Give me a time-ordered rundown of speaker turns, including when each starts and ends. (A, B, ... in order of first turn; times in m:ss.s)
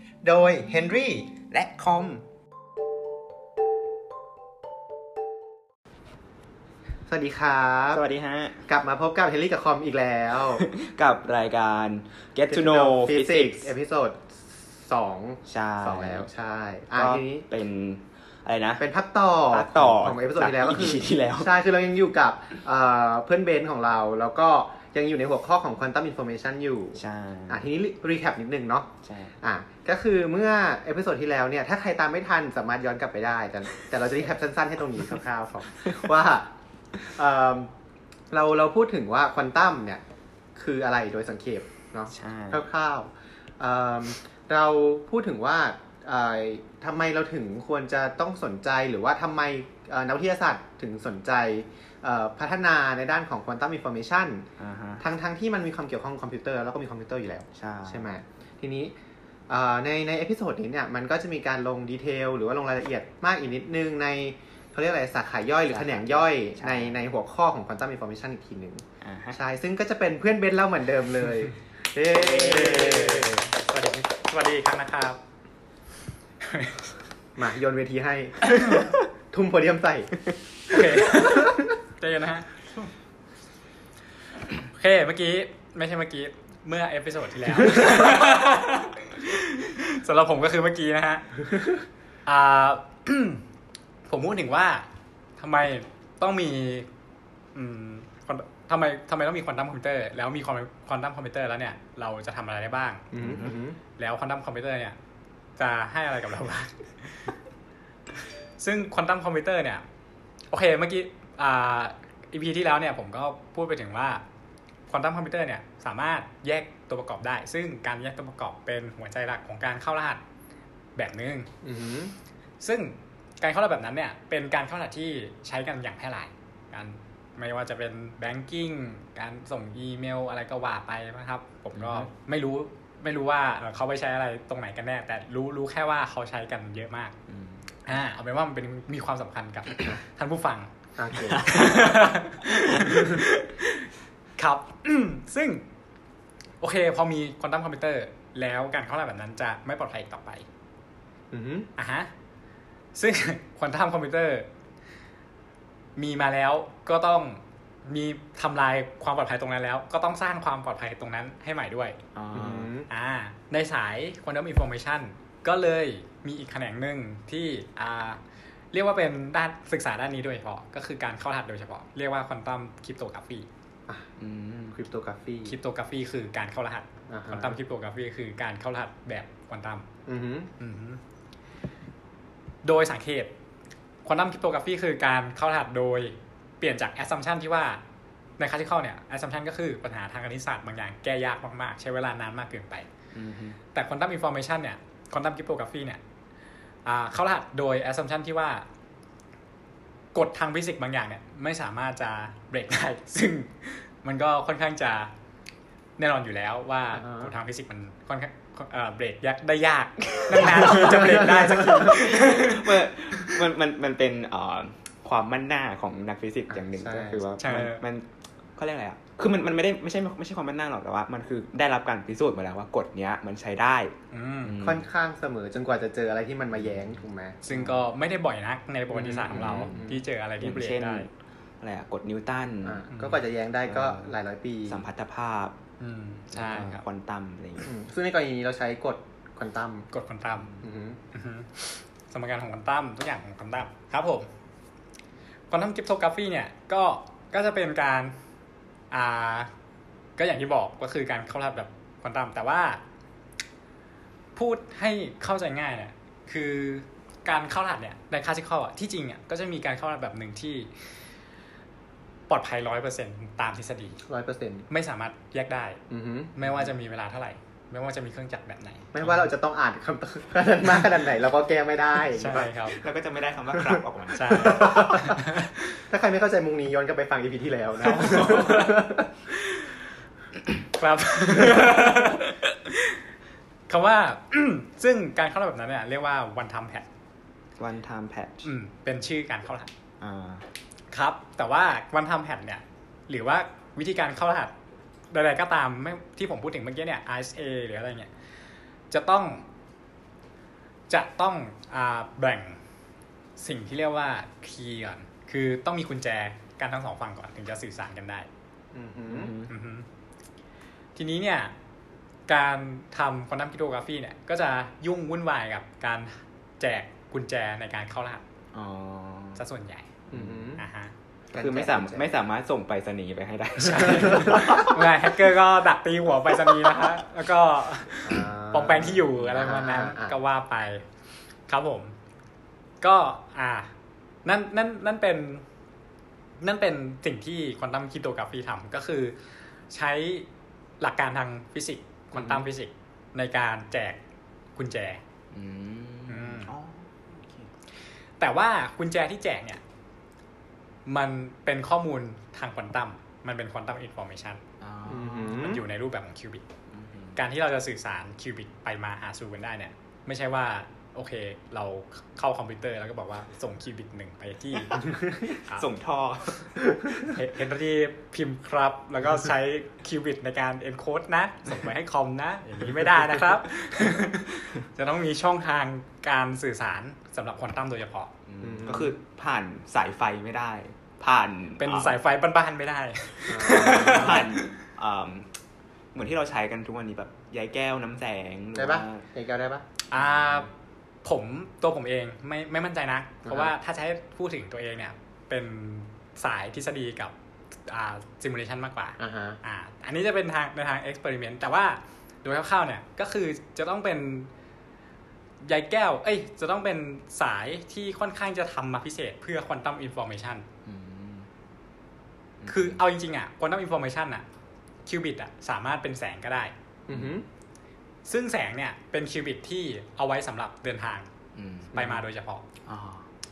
0:00.2-0:01.1 A
0:00.9-0:02.2 B
0:07.1-0:08.0 A
0:07.9-0:08.6 B
0:08.7-0:10.7 A
0:10.5-0:13.7 B
0:12.5-0:17.5 A
0:15.5-0:16.3 B
0:16.9-0:18.8 B
0:18.8-0:28.9 A
0:19.5-0:21.6 B
0:27.0-0:27.6 B
0:29.0-0:29.3 B
0:29.4-0:36.5 A
0:35.8-0:36.1 B
0:37.0-0:37.7 A
0:38.3-0:40.0 A
0:40.6-0:54.5 A
0:42.1-0:42.7 B
0:54.6-0:55.0 B
0:55.0-0:58.9 A
0:57.6-0:58.1 B
0:59.5-1:13.5 A
1:05.7-1:07.0 B
1:09.0-1:09.4 B
1:12.1-1:13.2 B
1:12.2-1:15.2 C
1:16.4-1:16.8 C
1:17.4-1:21.7 A
1:20.7-1:22.9 C
1:24.6-1:31.7 C
1:32.3-1:33.4 C
1:34.1-1:34.9 C
1:35.4-1:36.9 C
1:37.6-1:43.1 C
1:43.1-1:43.8 A
1:43.2-1:43.6 B
1:44.0-1:45.0 C
1:45.6-1:47.3 C
1:48.6-1:49.8 C
1:50.5-1:54.2 C
1:54.9-2:00.2 C
2:01.0-2:01.5 C
2:01.6-2:02.1 A
2:02.6-2:17.2 C
2:11.8-2:12.1 B
2:17.3-2:17.6 B
2:17.9-2:20.7 C
2:21.0-2:21.5 A
2:21.3-2:23.5 C
2:21.4-2:21.7 B
2:22.5-2:23.1 B
2:24.4-2:25.6 C
2:26.6-2:30.4 C
2:31.3-2:31.7 A
2:31.8-2:32.1 C
2:33.0-2:34.5 C
2:36.0-2:42.0 C
2:42.2-2:42.7 B
2:42.3-2:42.9 A
2:42.9-2:48.2 C
2:48.7-2:53.5 C
2:53.9-2:55.6 A
2:54.2-2:54.7 B
2:55.4-2:59.9 C
2:57.1-2:57.6 A
3:00.1-3:00.5 A
3:00.6-3:01.0 C
3:02.6-3:03.3 C
3:04.0-3:07.8 C
3:08.4-3:12.9 C
3:13.1-3:13.6 B
3:13.7-3:16.0 C
3:16.8-3:18.7 C
3:20.1-3:25.1 C
3:26.0-3:32.7 C
3:26.9-3:27.3 A
3:30.1-3:44.9 B
3:30.7-3:32.0 A
3:36.5-3:37.2 A
3:37.4-3:37.8 C
3:44.1-3:44.6 C
3:44.6-3:47.4 A
3:47.4-3:51.1 C
3:47.5-3:47.8 B
3:49.0-3:50.0 A
3:49.3-3:54.1 B
3:52.6-3:54.8 A
3:54.7-3:55.6 B
3:55.8-3:56.8 C
3:56.3-3:57.7 B
3:57.6-3:59.9 A
3:59.9-4:00.6 C
4:00.6-4:01.0 A
4:01.1-4:04.3 C
4:05.5-4:08.2 C
4:08.9-4:09.5 C
4:10.2-4:12.8 C
4:14.4-4:20.7 C
4:22.3-4:24.0 C
4:24.1-4:24.7 A
4:24.7-4:25.8 C
4:25.9-4:26.4 A
4:26.4-4:29.3 C
4:28.9-4:32.5 A
4:32.2-4:32.8 C
4:32.7-4:34.9 B
4:33.6-4:35.2 A
4:34.2-4:35.8 C
4:35.9-4:39.1 A
4:38.0-4:38.8 C
4:40.6-4:43.0 C
4:43.7-4:46.9 C
4:47.6-4:48.5 B
4:48.4-4:49.7 C
4:50.0-4:50.5 B
4:50.9-4:54.5 C
4:55.1-4:58.1 C
4:58.9-4:59.5 C
5:00.9-5:02.6 C
5:03.4-5:08.3 C
5:08.7-5:09.3 A
5:09.1-5:09.5 B
5:09.5-5:09.9 C
5:11.0-5:11.5 C
5:12.3-5:18.2 C
5:18.5-5:19.4 B
5:19.4-5:19.9 C
5:20.1-5:20.6 A
5:20.1-5:20.5 B
5:20.6-5:20.9 C
5:21.3-5:22.1 A
5:21.3-5:24.9 B
5:23.6-5:30.9 C
5:23.9-5:24.5 A
5:26.5-5:26.7 B
5:28.0-5:30.2 A
5:31.5-5:32.0 C
5:32.8-5:33.7 C
5:34.2-5:35.4 C
5:36.4-5:39.2 C
5:39.7-5:40.3 C
5:40.8-5:44.0 C
5:44.6-5:45.0 C
5:45.3-5:47.5 B
5:46.1-5:46.5 C
5:48.2-5:49.6 C
5:50.9-5:54.4 C
5:54.6-5:55.5 B
5:54.9-5:55.6 A
5:55.3-5:56.4 C
5:56.7-5:57.2 B
5:57.2-6:05.7 C
6:05.5-6:06.6 B
6:07.0-6:18.1 C
6:18.3-6:22.0 B
6:18.4-6:19.0 A
6:21.6-6:24.5 C
6:23.3-6:24.3 A
6:23.5-6:25.3 B
6:25.9-6:29.0 B
6:28.6-6:29.6 A
6:29.9-6:30.5 C
6:31.0-6:37.1 C
6:33.3-6:33.5 A
6:37.7-6:44.3 C
6:39.0-6:39.4 A
6:45.4-6:50.5 C
6:50.6-6:51.3 B
6:52.4-6:52.8 B
6:52.5-6:54.2 C
6:54.9-6:56.5 C
6:56.9-6:57.2 A
6:56.9-6:57.2 B
6:58.1-7:01.1 C
7:01.3-7:02.0 B
7:01.7-7:02.4 C
7:01.8-7:02.0 A
7:02.6-7:03.1 B